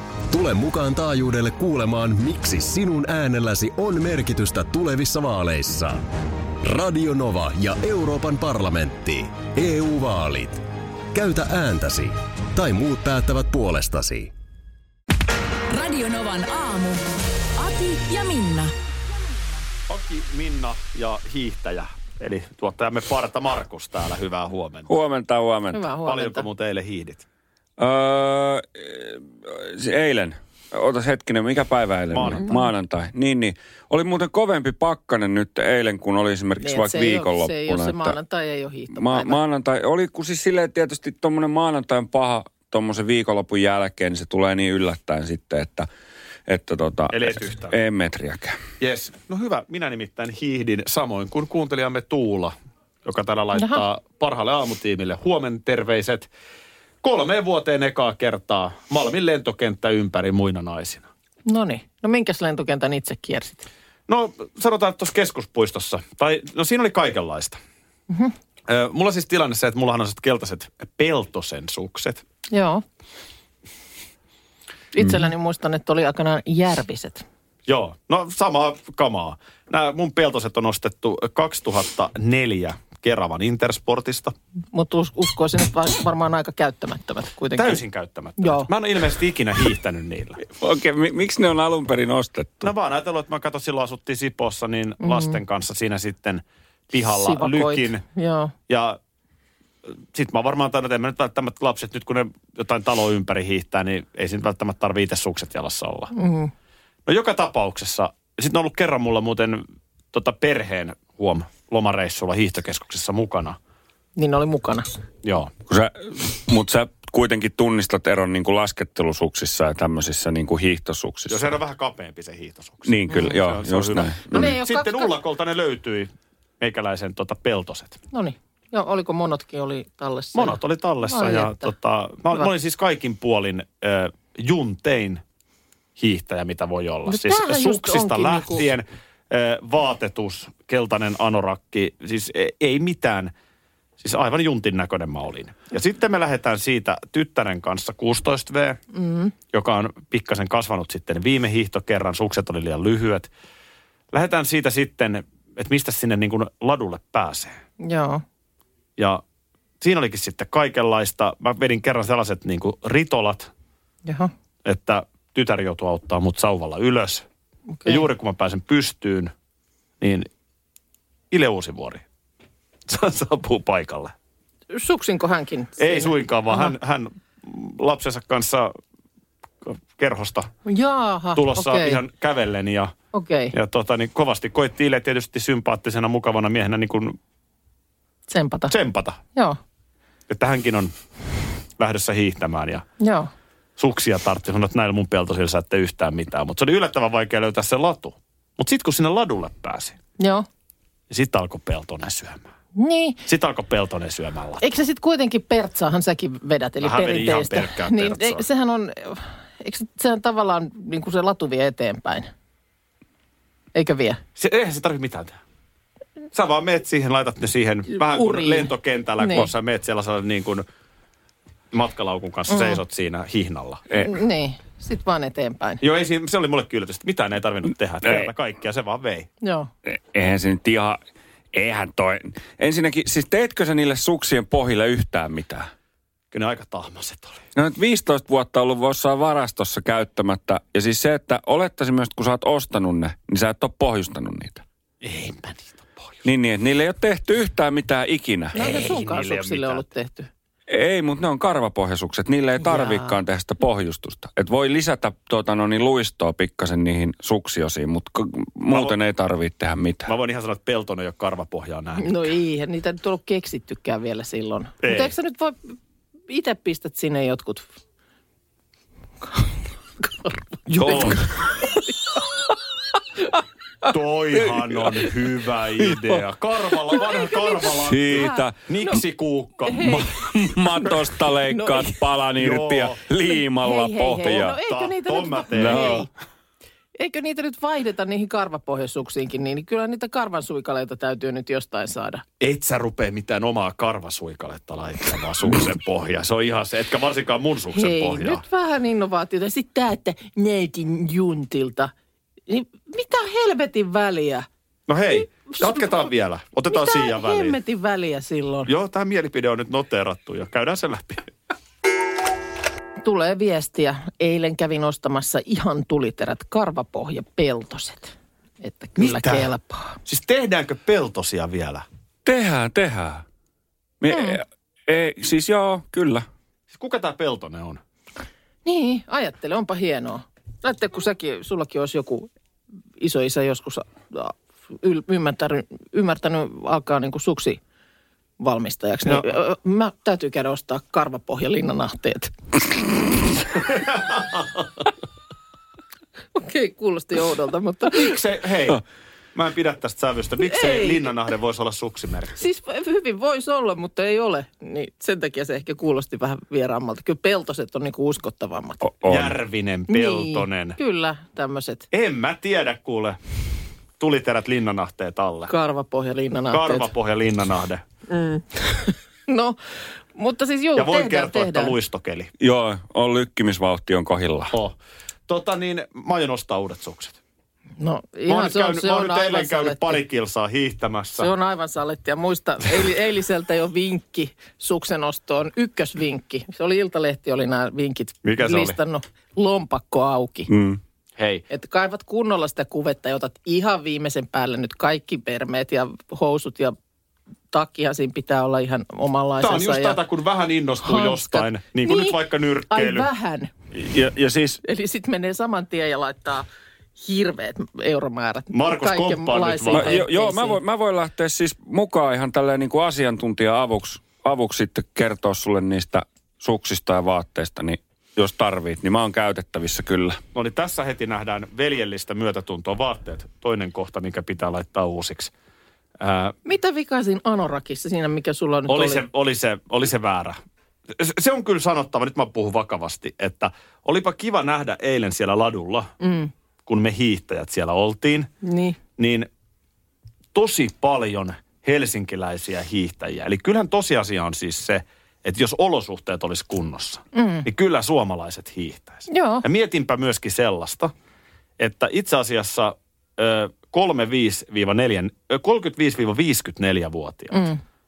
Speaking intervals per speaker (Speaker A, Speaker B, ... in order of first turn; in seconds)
Speaker A: 0.3-6.0, 6.6-14.3
Speaker B: 15.7-17.0, 17.6-18.7
Speaker C: 19.9-24.9, 26.0-27.2, 32.1-32.6, 47.1-47.8, 48.8-52.5, 53.0-56.3, 57.0-61.1, 64.1-67.6, 68.7-72.2, 77.7-84.3, 87.5-90.4, 92.6-98.0, 98.7-99.0, 99.9-106.1, 107.0-113.6, 115.2-115.5, 121.3-128.0, 130.3-135.2, 136.0-143.3, 144.0-148.8, 149.5-153.3, 154.1-157.6, 159.0-159.2, 159.8-163.5, 164.6-167.2, 167.8-169.3, 170.0-170.3, 171.3-172.0, 172.9-174.1, 175.8-178.7, 179.6-180.5, 181.3-182.9, 183.5-187.2, 188.7-189.2, 190.3-190.9, 191.8-192.8, 193.8-200.0, 201.1-202.5, 203.2-204.6, 206.8-208.4, 214.4-215.4, 216.3-220.6, 221.7-223.8, 225.8-229.3, 236.3-237.4, 245.0-246.2, 248.5-249.8, 258.7-258.9, 260.1-262.3, 264.8-265.1, 270.7-271.2, 273.9-280.1, 282.4-283.0, 284.3-286.0, 292.4-298.4, 304.9-307.6, 308.7-311.3, 319.0-319.5, 320.1-321.8, 326.7-327.8, 343.5-344.7, 347.9-348.8, 349.3-352.3, 359.0-360.8, 361.9-363.2, 364.0-365.5, 366.5-367.8, 370.7-372.3, 374.5-374.8, 375.3-377.2, 378.3-381.3, 388.2-388.8, 391.2-391.4, 399.4-403.1, 408.5-410.0, 420.3-425.3, 426.0-426.4, 428.7-430.4, 430.9-435.9, 436.6-438.3, 438.9-439.3, 440.3-450.9, 451.6-457.4
Speaker D: 24.9-25.8, 27.8-38.2, 38.9-45.9, 46.5-48.6, 90.5-92.7, 115.7-121.5, 122.8-124.6, 228.0-228.3, 229.8-231.0, 231.5-235.7, 237.6-244.6, 246.2-248.6, 250.7-260.1, 270.8-271.2, 275.8-276.2, 277.7-279.0, 280.2-284.6, 285.5-286.1, 322.2-323.2, 324.0-326.2, 358.9-359.4, 372.4-374.5, 390.5-390.8, 403.7-404.6, 409.7-420.2
Speaker E: 25.7-26.4, 36.6-39.4, 53.5-53.8, 61.5-63.7, 72.5-72.8, 74.9-77.2, 84.7-87.8, 88.4-88.7, 95.0-95.4, 97.1-98.5, 106.1-106.5, 114.2-115.0, 123.1-123.4, 124.3-125.1, 128.1-131.7, 137.1-138.7, 148.9-149.3, 157.8-158.2, 164.1-164.3, 174.7-176.7, 180.7-182.0, 183.1-183.5, 188.3-188.7, 189.3-189.6, 193.0-193.3, 200.2-200.5, 202.8-203.2, 204.6-212.3, 213.7-214.2, 217.9-219.5, 222.5-222.8, 223.9-225.8, 229.4-229.7, 248.5-250.3, 252.6-253.2, 262.0-265.8, 266.3-267.6, 270.0-272.2, 277.0-277.3, 278.1-278.9, 279.6-280.1, 281.5-281.9, 283.5-286.1, 286.9-292.2, 297.7-301.9, 302.5-304.5, 305.3-306.0, 306.7-308.7, 313.0-320.0, 324.1-324.4, 328.6-332.3, 333.0-337.6, 338.4-342.3, 346.3-348.2, 350.4-351.1, 352.4-358.9, 359.9-361.9, 365.5-366.9, 368.1-369.6, 370.1-371.7, 377.8-380.0, 381.2-390.5, 391.5-396.8, 397.5-400.0, 400.8-402.2, 402.7-403.5, 404.6-406.4, 407.0-410.6, 426.4-429.0, 436.0-436.3, 438.4-438.8, 447.1-447.5, 449.1-449.4, 457.3-457.6